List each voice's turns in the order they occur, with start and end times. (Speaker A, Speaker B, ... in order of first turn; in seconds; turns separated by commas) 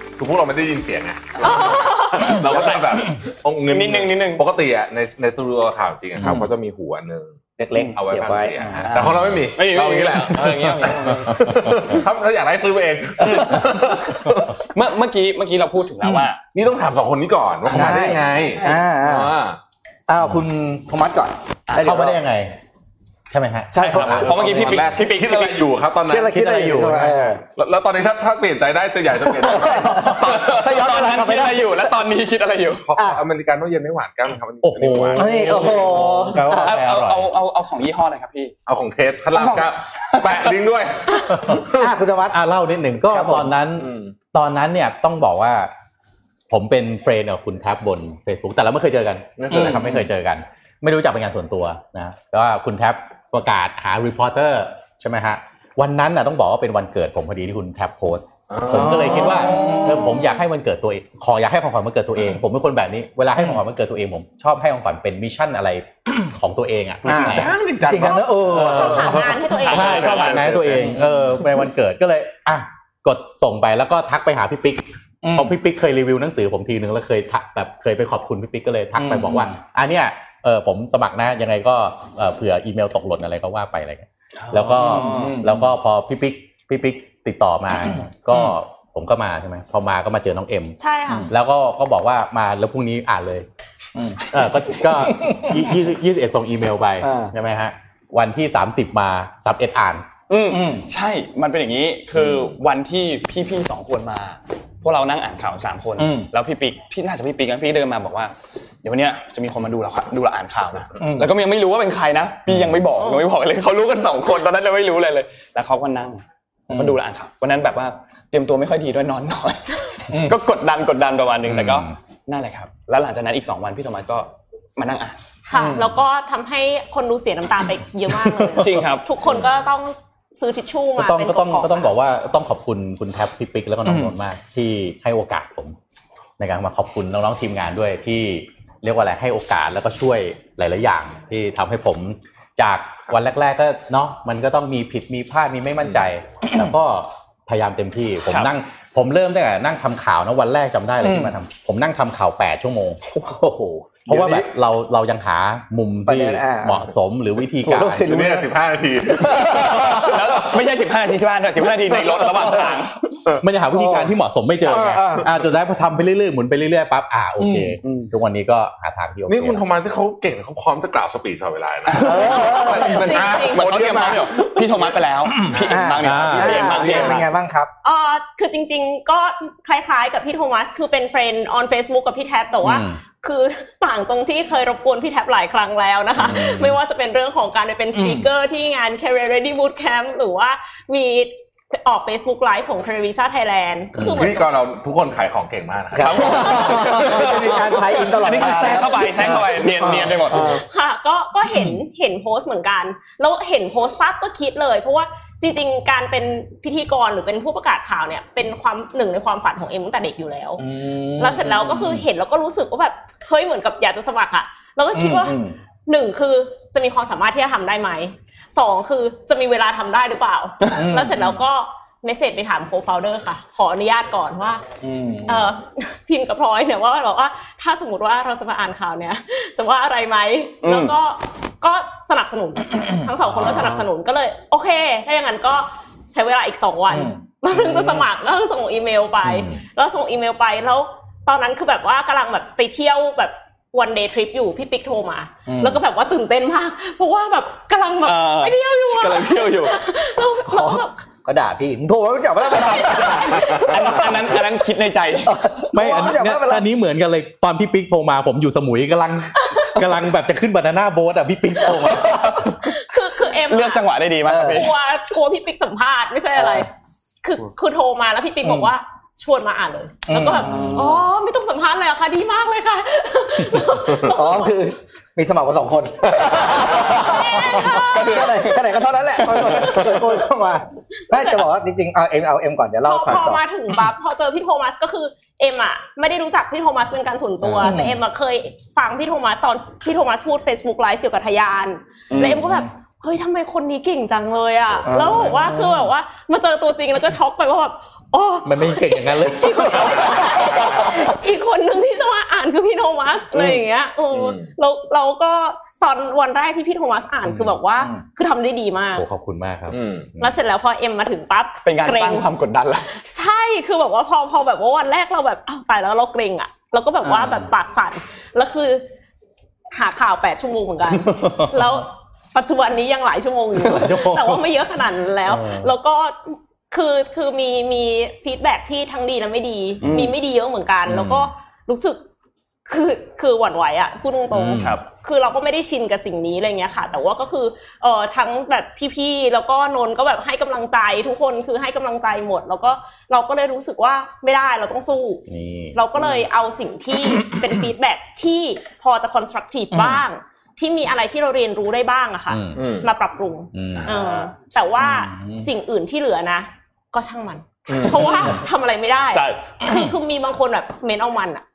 Speaker A: 0.2-7.4, Speaker B: 1.4-3.2, Speaker C: 1.4-2.4, Speaker B: 3.7-4.4, Speaker D: 6.2-6.4, Speaker E: 7.6-8.9, Speaker A: 8.0-14.6, Speaker B: 8.8-11.5, Speaker D: 9.1-9.3, Speaker E: 13.2-13.6, Speaker B: 14.7-16.4, Speaker A: 16.5-19.6, Speaker B: 17.7-18.8, Speaker E: 17.7-19.4, Speaker E: 20.1-22.2, Speaker D: 21.8-22.6, Speaker D: 23.3-24.7, Speaker E: 23.7-24.8, Speaker B: 23.8-25.7, Speaker A: 24.1-26.4, Speaker E: 26.1-27.4, Speaker D: 26.3-27.4, Speaker A: 27.5-30.2, Speaker E: 29.4-31.8, Speaker B: 29.8-32.9, Speaker A: 32.9-35.7, Speaker E: 33.0-33.2, Speaker D: 34.6-37.3, Speaker E: 35.1-36.8, Speaker B: 35.3-38.5, Speaker A: 38.7-41.9, Speaker B: 39.3-40.5, Speaker E: 41.6-42.4, Speaker D: 42.3-45.7, Speaker E: 43.1-43.5, Speaker A: 43.7-44.2, Speaker D: 46.5-67.5, Speaker A: 49.4-49.9, Speaker E: 49.5-49.9, Speaker A: 58.5-59.9, Speaker E: 58.7-60.0, Speaker E: 67.1-69.3, Speaker A: 67.2-71.0, Speaker D: 68.4-90.8, Speaker C: 68.6-70.4, Speaker B: 69.6-70.3, Speaker E: 75.2-75.5, Speaker E: 79.0-79.6, Speaker B: 84.4-85.1, Speaker E: 84.5-85.7, Speaker C: 90.8-91.3, Speaker D: 91.3-93.5, Speaker E: 94.0-94.2, Speaker D: 94.3-100.0, Speaker E: 94.8-95.6, Speaker E: 97.0-97.3, Speaker B: 100.3-108.3, Speaker E: 100.5-100.9, Speaker E: 106.0-106.3, Speaker B: 108.8-125.2, Speaker E: 111.0-111.3, Speaker E: 116.7-117.0, Speaker E: 120.1-120.4, Speaker D: 121.5-121.9, Speaker C: 125.5-131.9, Speaker E: 125.5-125.8, Speaker B: 128.6-129.1, Speaker D: 131.0-135.8, Speaker E: 133.9-134.1, Speaker D: 136.4-153.0, Speaker E: 151.0-151.3, Speaker E: 153.1-154.5, Speaker D: 154.1-158.1, Speaker E: 156.1-156.9, Speaker E: 157.6-158.6, Speaker A: 158.0-160.5, Speaker E: 159.1-160.1, Speaker B: 159.4-163.0, Speaker D: 163.4-169.6, Speaker E: 163.7-165.3, Speaker E: 167.4-167.8, Speaker B: 167.8-168.1, Speaker A: 169.3-174.9, Speaker B: 171.9-177.3, Speaker E: 172.0-173.1, Speaker C: 172.2-173.7, Speaker E: 175.5-177.7, Speaker A: 175.5-175.8, Speaker D: 176.0-176.8, Speaker C: 177.8-194.5, Speaker D: 182.6-183.0, Speaker D: 186.2-186.8, Speaker E: 187.9-188.3, Speaker A: 194.0-197.6, Speaker E: 195.9-200.6, Speaker B: 196.0-200.6, Speaker A: 200.2-200.6, Speaker C: 200.5-210.6, Speaker E: 210.6-212.0, Speaker C: 211.2-224.6, Speaker E: 214.9-215.6, Speaker E: 220.7-221.3, Speaker E: 224.8-225.5, Speaker C: 225.3-250.9, Speaker B: 230.6-230.9, Speaker E: 233.4-233.7, Speaker E: 236.9-238.1, Speaker D: 239.2-239.6, Speaker E: 245.5-245.8, Speaker B: 248.0-249.8, Speaker E: 250.5-254.4, Speaker B: 252.5-255.4, Speaker C: 252.8-253.6, Speaker A: 253.3-253.8, Speaker E: 255.2-256.7, Speaker D: 255.7-262.5, Speaker C: 262.6-263.9, Speaker B: 263.5-264.7, Speaker E: 264.2-264.7, Speaker C: 264.4-266.7, Speaker E: 266.4-266.6, Speaker C: 267.2-274.6, Speaker E: 270.1-270.9, Speaker E: 273.9-283.4, Speaker B: 276.5-280.0, Speaker C: 276.8-278.2, Speaker C: 282.9-309.1, Speaker E: 287.4-288.0, Speaker B: 292.1-292.4, Speaker E: 292.2-292.6, Speaker E: 294.9-295.7, Speaker D: 298.4-300.6, Speaker B: 299.9-300.6, Speaker A: 304.1-304.5, Speaker D: 307.3-307.5, Speaker D: 308.9-309.8, Speaker A: 309.7-310.3, Speaker C: 310.2-312.3, Speaker B: 311.7-312.9, Speaker C: 313.0-318.9, Speaker C: 319.7-332.0, Speaker D: 321.1-321.6, Speaker D: 323.6-324.5, Speaker D: 325.3-325.7, Speaker B: 329.8-330.1, Speaker D: 330.9-331.3, Speaker C: 332.7-345.2, Speaker D: 334.3-334.7, Speaker B: 334.5-334.8, Speaker D: 345.3-345.8, Speaker C: 345.7-361.4, Speaker D: 349.7-350.0, Speaker D: 352.3-352.6, Speaker A: 352.6-352.9, Speaker D: 353.5-353.9, Speaker B: 353.8-354.3, Speaker D: 354.8-355.5, Speaker A: 357.7-358.3, Speaker B: 359.1-359.5